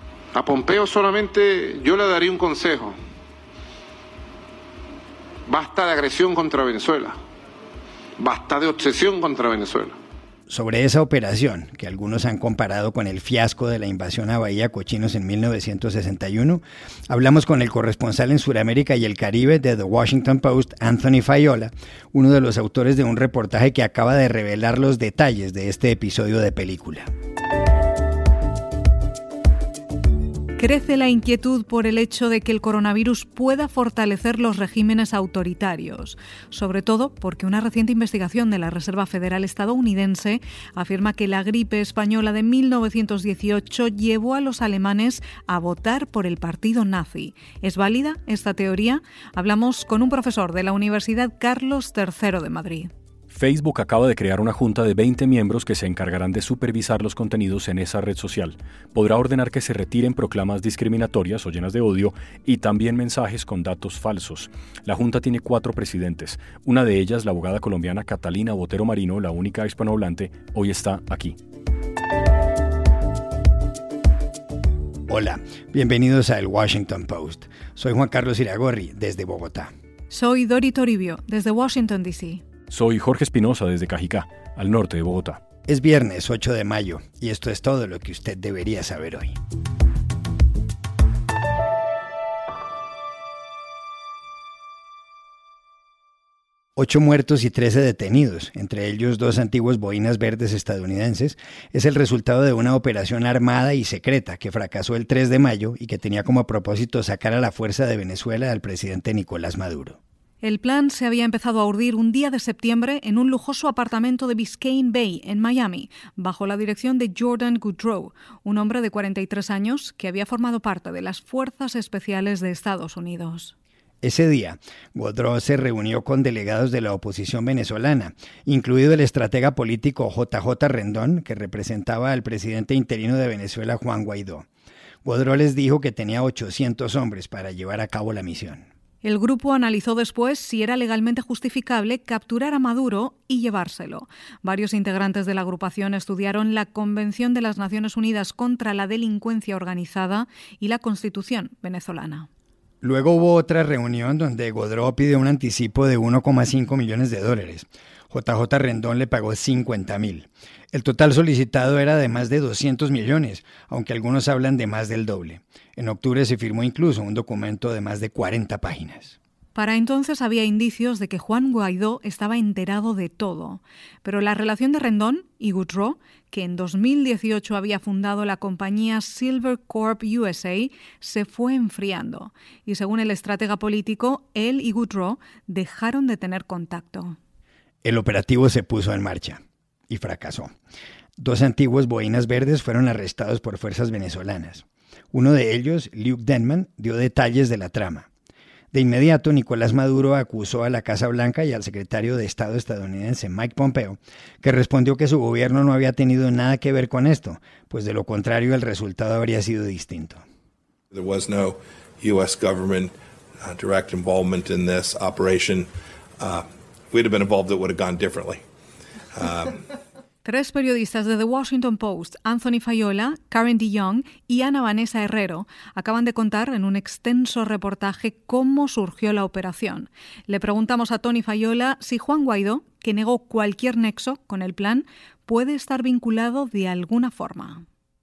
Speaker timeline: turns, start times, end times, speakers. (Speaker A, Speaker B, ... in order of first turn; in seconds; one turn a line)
Speaker A: 0.3-3.0
Speaker A: 5.5-7.2
Speaker A: 8.2-10.0
Speaker B: 10.5-27.1
Speaker C: 30.6-52.9
Speaker D: 53.3-71.4
Speaker B: 75.1-79.7
Speaker C: 80.1-82.4
Speaker D: 82.7-85.4
Speaker B: 85.7-89.4
Speaker B: 96.8-110.0
Speaker C: 110.4-123.5
Speaker B: 124.0-134.5
Speaker B: 135.0-138.6
Speaker C: 139.0-152.3
Speaker B: 152.8-169.2
Speaker C: 169.6-187.2
Speaker B: 187.8-190.5
Speaker B: 191.2-198.1
Speaker B: 198.7-210.2
Speaker E: 210.9-215.7
Speaker E: 216.2-218.4
Speaker E: 219.2-219.6
Speaker C: 220.2-237.6